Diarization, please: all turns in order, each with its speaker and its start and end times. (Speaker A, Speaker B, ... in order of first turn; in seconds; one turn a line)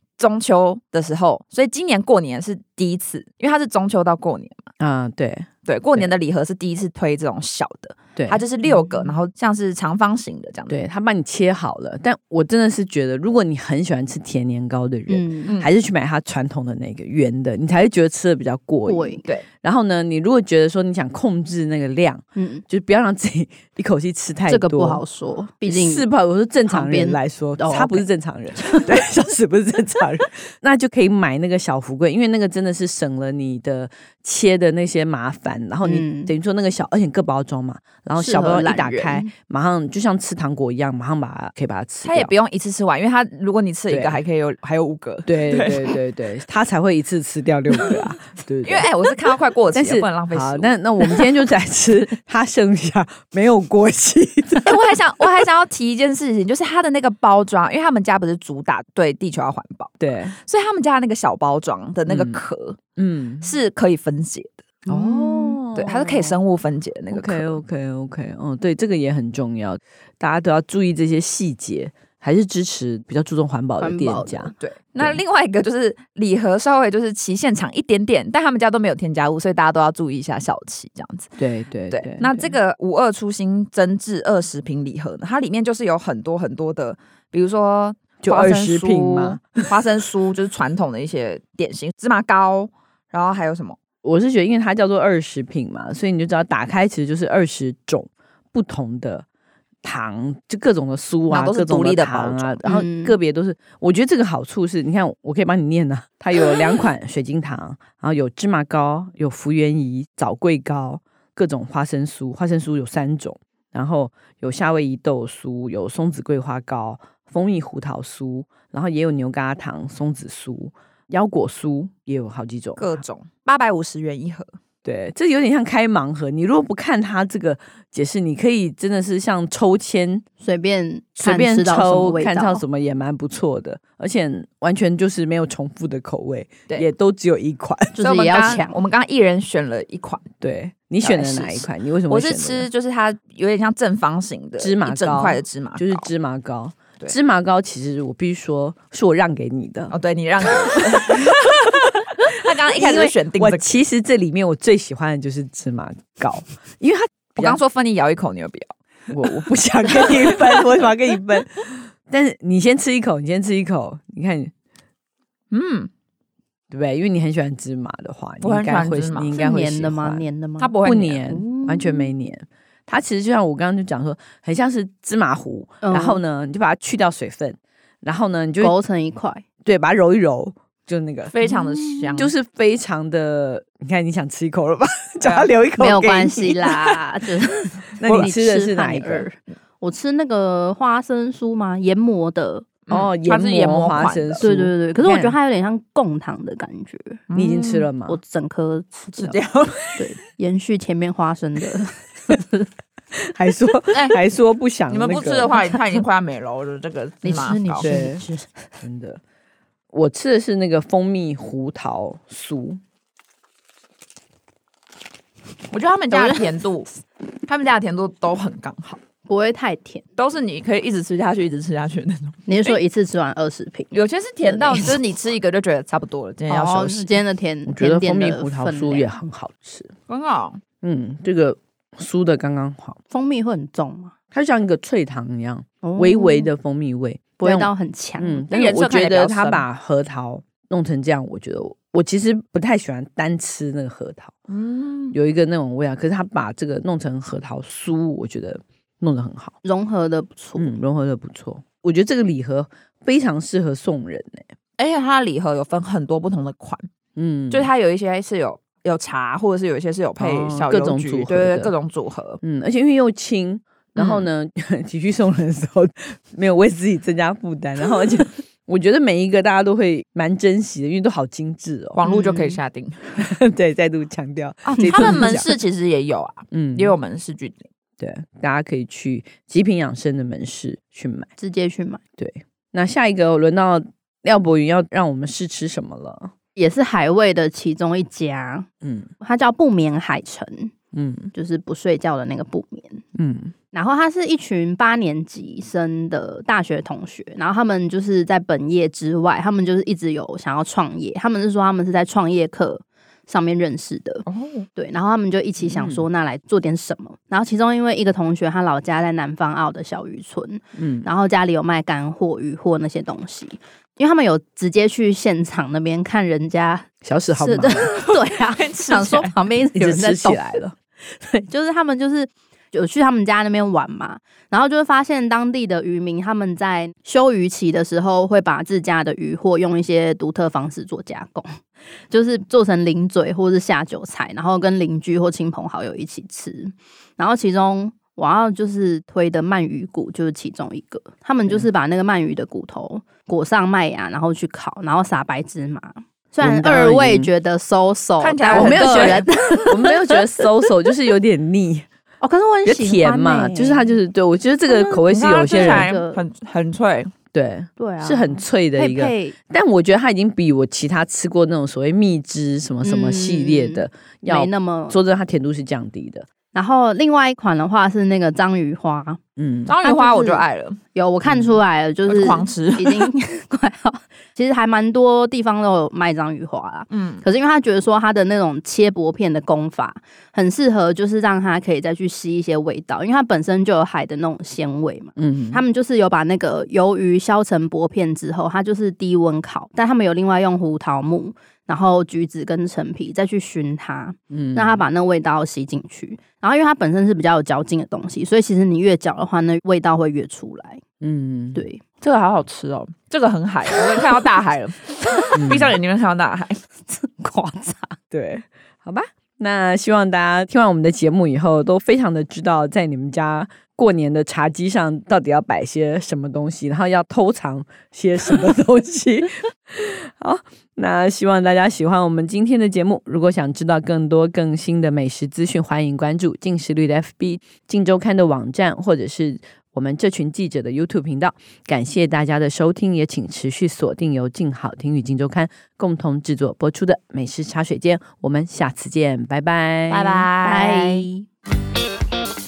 Speaker A: 0.2-4.7
Speaker B: 4.8-6.1
Speaker A: 5.7-10.8
Speaker B: 8.2-8.4
Speaker B: 10.7-25.0
Speaker C: 15.1-15.5
Speaker C: 18.9-19.2
Speaker C: 22.4-22.6
Speaker C: 24.5-26.1
Speaker B: 25.7-42.3
Speaker C: 26.7-28.1
Speaker C: 28.6-28.9
Speaker C: 35.8-36.3
Speaker C: 38.2-39.3
Speaker A: 42.0-46.0
Speaker B: 43.9-44.2
Speaker B: 45.3-48.9
Speaker A: 47.8-48.1
Speaker A: 48.6-50.8
Speaker B: 49.7-55.3
Speaker A: 54.6-62.8
Speaker B: 60.0-60.4
Speaker B: 62.1-62.4
Speaker B: 63.0-63.5
Speaker A: 63.4-64.7
Speaker C: 64.9-65.6
Speaker B: 64.9-66.4
Speaker A: 65.7-67.6
Speaker B: 67.1-75.2
Speaker C: 73.8-74.5
Speaker A: 74.6-81.3
Speaker B: 81.4-82.5
Speaker A: 81.9-93.8
Speaker B: 88.2-89.7
Speaker B: 94.0-99.2
Speaker B: 99.8-123.0
Speaker A: 101.3-102.6
Speaker C: 102.7-103.2
Speaker A: 122.8-124.6
Speaker B: 124.8-130.2
Speaker C: 130.4-132.6
Speaker B: 131.2-138.0
Speaker C: 137.9-138.8
Speaker A: 138.0-140.3
Speaker B: 140.4-142.7
Speaker A: 141.0-146.1
Speaker B: 144.6-149.9
Speaker A: 149.9-153.8
Speaker B: 150.7-151.2
Speaker B: 152.7-157.6
Speaker A: 157.4-158.8
Speaker B: 159.1-164.5
Speaker A: 159.9-160.4
Speaker A: 165.5-165.9
Speaker B: 166.7-170.2
Speaker A: 168.4-169.3
Speaker C: 169.3-170.8
Speaker A: 170.6-171.4
Speaker B: 170.8-178.7
Speaker C: 171.3-172.1
Speaker C: 175.8-176.2
Speaker C: 178.6-179.4
Speaker B: 179.7-181.6
Speaker A: 181.3-182.3
Speaker B: 182.2-186.9
Speaker A: 185.2-185.5
Speaker C: 185.8-192.7
Speaker B: 188.0-189.3
Speaker A: 188.0-188.3
Speaker A: 192.9-194.4
Speaker B: 192.9-195.3
Speaker C: 194.4-197.2
Speaker A: 197.3-197.9
Speaker B: 197.3-198.2
Speaker C: 198.1-199.4
Speaker A: 199.1-200.0
Speaker C: 200.0-202.7
Speaker B: 203.3-205.6
Speaker A: 204.9-207.9
Speaker C: 207.2-208.5
Speaker B: 207.8-208.2
Speaker B: 208.8-209.2
Speaker B: 209.9-212.8
Speaker A: 215.7-216.9
Speaker C: 216.1-216.5
Speaker A: 217.4-219.0
Speaker C: 219.3-220.1
Speaker A: 220.2-222.4
Speaker C: 222.5-225.0
Speaker A: 223.9-227.1
Speaker C: 226.5-229.1
Speaker B: 227.7-229.9
Speaker A: 230.1-230.6
Speaker B: 230.8-233.0
Speaker C: 233.1-234.1
Speaker B: 234.3-244.3
Speaker C: 235.8-236.5
Speaker C: 237.4-238.5
Speaker A: 238.5-239.7
Speaker A: 244.5-245.2
Speaker B: 245.1-249.6
Speaker C: 249.6-250.8
Speaker B: 250.6-254.5
Speaker A: 254.8-256.9
Speaker B: 257.2-257.7
Speaker A: 257.5-262.4
Speaker B: 260.2-261.7
Speaker B: 262.4-272.0
Speaker A: 264.0-264.2
Speaker A: 271.9-273.2
Speaker C: 272.1-272.6
Speaker B: 273.2-275.5
Speaker A: 274.7-277.7
Speaker C: 274.8-275.2
Speaker B: 276.5-276.9
Speaker B: 278.0-281.3
Speaker C: 281.4-282.0
Speaker B: 282.2-286.3
Speaker C: 286.6-288.7
Speaker B: 288.8-289.1
Speaker C: 289.2-290.7
Speaker B: 290.9-291.3
Speaker C: 291.3-293.0
Speaker B: 293.1-293.5
Speaker C: 293.7-320.6
Speaker A: 304.3-304.7
Speaker B: 305.6-306.0
Speaker B: 310.8-311.1
Speaker B: 317.0-317.9
Speaker A: 318.5-319.3
Speaker B: 319.8-320.8
Speaker C: 321.1-331.6
Speaker C: 332.1-350.5
Speaker B: 346.4-347.3
Speaker A: 348.2-349.3
Speaker B: 348.5-351.9
Speaker C: 352.2-353.9
Speaker B: 352.6-355.9
Speaker C: 354.7-356.2
Speaker A: 355.1-357.1
Speaker B: 357.3-366.3
Speaker C: 357.8-359.4
Speaker C: 362.8-365.0
Speaker C: 366.5-369.2
Speaker B: 369.4-369.7
Speaker A: 369.7-370.8
Speaker C: 369.8-400.8
Speaker A: 372.1-373.1
Speaker A: 376.9-377.2
Speaker B: 385.2-385.6
Speaker B: 394.3-394.8
Speaker B: 401.0-401.6
Speaker C: 401.6-401.8
Speaker A: 402.0-406.6
Speaker C: 405.1-405.6
Speaker B: 405.4-405.7
Speaker C: 406.8-408.0
Speaker B: 408.1-440.3
Speaker A: 439.9-441.1
Speaker C: 440.4-441.2